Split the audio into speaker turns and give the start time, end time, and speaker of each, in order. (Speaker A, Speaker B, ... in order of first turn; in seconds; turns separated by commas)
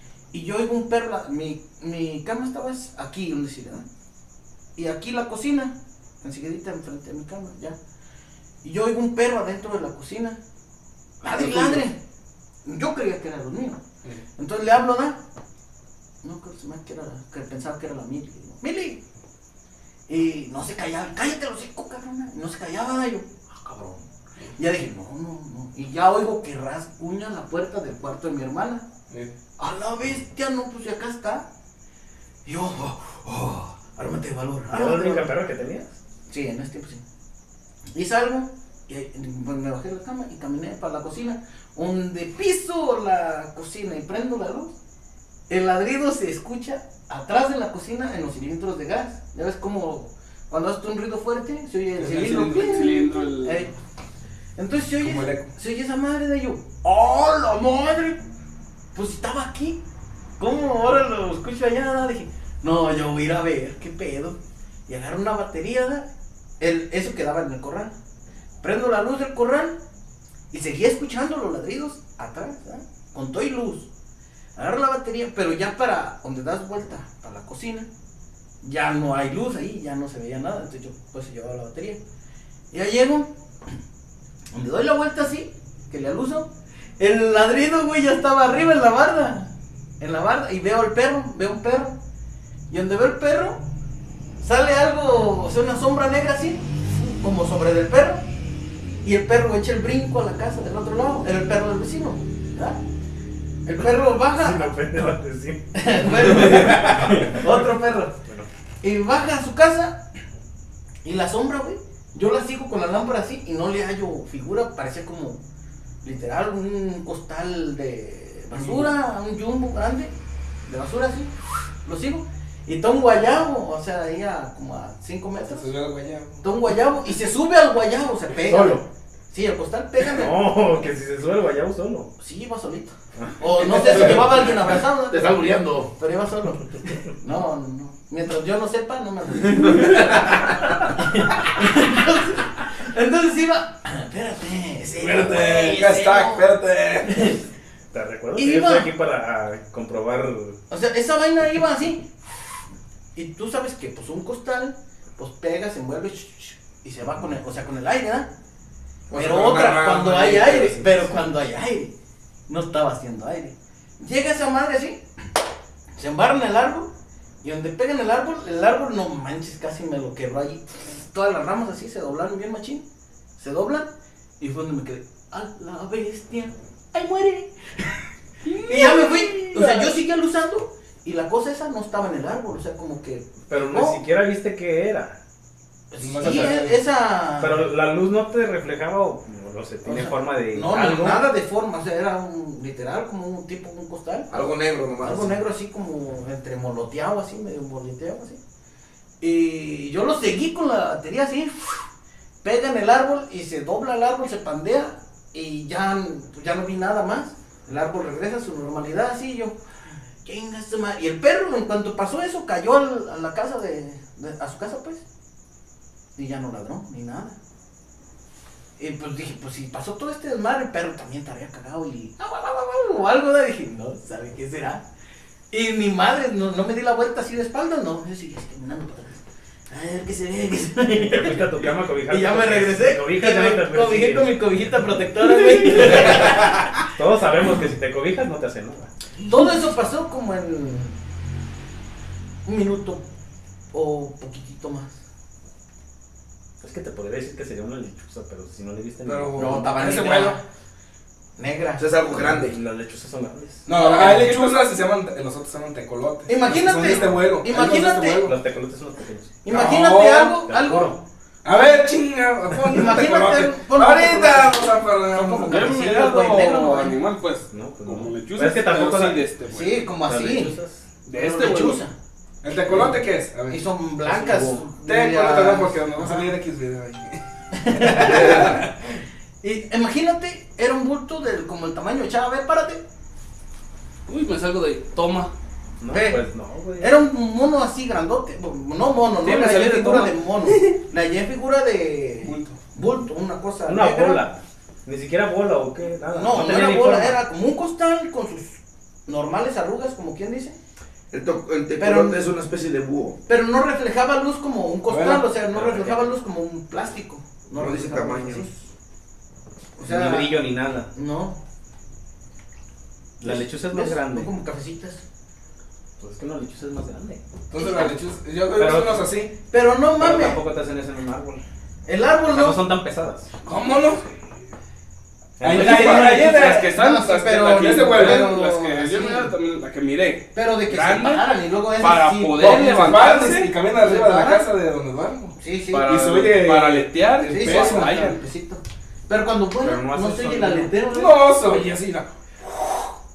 Speaker A: 0.3-3.9, Speaker A: 4.8-7.8, Speaker A: 8.6-10.4, Speaker A: 11.2-11.9, Speaker B: 11.3-11.8, Speaker A: 12.6-13.8, Speaker A: 14.4-15.2, Speaker A: 16.2-19.0, Speaker A: 20.1-24.1, Speaker A: 24.6-28.9, Speaker A: 29.6-31.4, Speaker A: 32.5-35.3, Speaker C: 34.7-36.0, Speaker A: 36.3-37.0, Speaker A: 37.9-44.7, Speaker A: 45.5-53.7, Speaker B: 52.0-53.2, Speaker D: 52.5-53.7, Speaker A: 54.5-58.2, Speaker B: 55.0-55.5, Speaker A: 58.9-59.8, Speaker A: 60.4-66.0, Speaker A: 66.6-67.9, Speaker A: 68.6-69.8, Speaker A: 70.5-73.9, Speaker A: 74.5-77.9, Speaker A: 78.6-82.0, Speaker A: 82.7-83.3, Speaker A: 84.5-86.5, Speaker A: 87.0-91.9, Speaker A: 92.7-93.6, Speaker A: 94.4-98.2, Speaker A: 99.0-102.8, Speaker A: 103.6-104.7, Speaker C: 104.0-107.7, Speaker A: 105.7-108.1, Speaker C: 108.2-108.5, Speaker A: 108.8-110.0, Speaker A: 111.0-115.4, Speaker A: 116.0-120.1, Speaker B: 118.5-118.9, Speaker A: 120.7-121.3, Speaker A: 121.8-125.7, Speaker B: 125.5-126.5, Speaker A: 126.4-130.4, Speaker C: 128.4-128.8, Speaker C: 130.0-132.1, Speaker A: 132.2-146.6, Speaker C: 133.2-134.1, Speaker E: 133.9-135.9, Speaker B: 145.0-147.3, Speaker A: 147.1-147.4, Speaker C: 147.9-150.6, Speaker A: 148.3-148.9, Speaker A: 150.7-152.1, Speaker A: 153.1-158.3, Speaker E: 159.1-160.8, Speaker A: 159.1-161.9, Speaker B: 160.2-161.2, Speaker A: 162.5-165.0, Speaker A: 166.0-166.9, Speaker A: 167.4-172.9, Speaker A: 173.4-177.8, Speaker A: 178.5-184.0, Speaker C: 179.0-179.9, Speaker C: 183.5-185.2, Speaker A: 185.9-187.7, Speaker B: 186.0-186.8, Speaker C: 186.2-186.5, Speaker C: 187.4-191.2, Speaker A: 189.8-194.3, Speaker E: 194.3-195.4, Speaker A: 195.0-198.4, Speaker A: 199.2-201.9, Speaker A: 202.4-209.5, Speaker A: 210.2-215.0, Speaker A: 216.2-217.4, Speaker A: 218.8-224.8, Speaker A: 225.5-231.5, Speaker C: 230.9-234.6, Speaker A: 232.1-236.7, Speaker C: 235.2-238.9, Speaker A: 239.2-240.9, Speaker A: 242.4-243.0, Speaker A: 243.7-245.0, Speaker C: 246.6-250.0, Speaker B: 249.0-250.4, Speaker A: 249.4-250.4, Speaker E: 249.4-250.2, Speaker A: 251.4-251.9, Speaker E: 251.8-252.6, Speaker C: 252.1-254.2, Speaker B: 253.7-258.4, Speaker A: 253.7-254.6, Speaker A: 256.3-258.2, Speaker C: 258.2-259.4, Speaker A: 259.4-260.9, Speaker B: 259.5-260.4, Speaker C: 260.5-261.0, Speaker B: 261.4-265.6, Speaker A: 261.5-261.8, Speaker A: 262.7-267.0, Speaker D: 265.4-269.9, Speaker C: 267.5-269.2, Speaker A: 269.5-270.5, Speaker C: 270.0-270.8, Speaker D: 271.0-271.8, Speaker A: 271.1-271.9, Speaker B: 272.4-273.6, Speaker A: 273.5-276.3, Speaker C: 274.1-274.6, Speaker B: 274.9-278.7, Speaker A: 277.5-278.7, Speaker A: 279.4-282.8, Speaker D: 284.1-285.3, Speaker C: 285.8-287.0, Speaker A: 285.9-286.2, Speaker A: 286.8-294.2, Speaker D: 289.2-290.7, Speaker D: 292.2-292.6, Speaker C: 293.6-297.2, Speaker A: 296.1-300.6, Speaker E: 301.1-303.2, Speaker A: 301.8-302.2, Speaker A: 303.3-308.5, Speaker B: 304.9-305.9, Speaker C: 305.6-305.9, Speaker E: 307.5-308.5, Speaker A: 309.8-311.4, Speaker C: 309.9-310.9, Speaker A: 313.2-315.0, Speaker C: 313.2-314.3, Speaker C: 316.0-317.2, Speaker B: 317.5-319.3, Speaker A: 317.6-317.9, Speaker C: 318.6-319.1, Speaker A: 319.5-320.4, Speaker C: 320.0-321.4, Speaker A: 321.9-322.6, Speaker C: 322.3-323.3, Speaker B: 323.4-324.1, Speaker C: 325.4-326.5, Speaker B: 325.4-326.6, Speaker D: 325.4-333.2, Speaker A: 325.6-329.3, Speaker B: 327.5-328.4, Speaker A: 330.4-334.5, Speaker B: 332.5-338.2, Speaker A: 335.4-336.1, Speaker D: 335.7-338.2, Speaker A: 337.3-341.4, Speaker C: 339.6-340.7, Speaker B: 340.9-342.9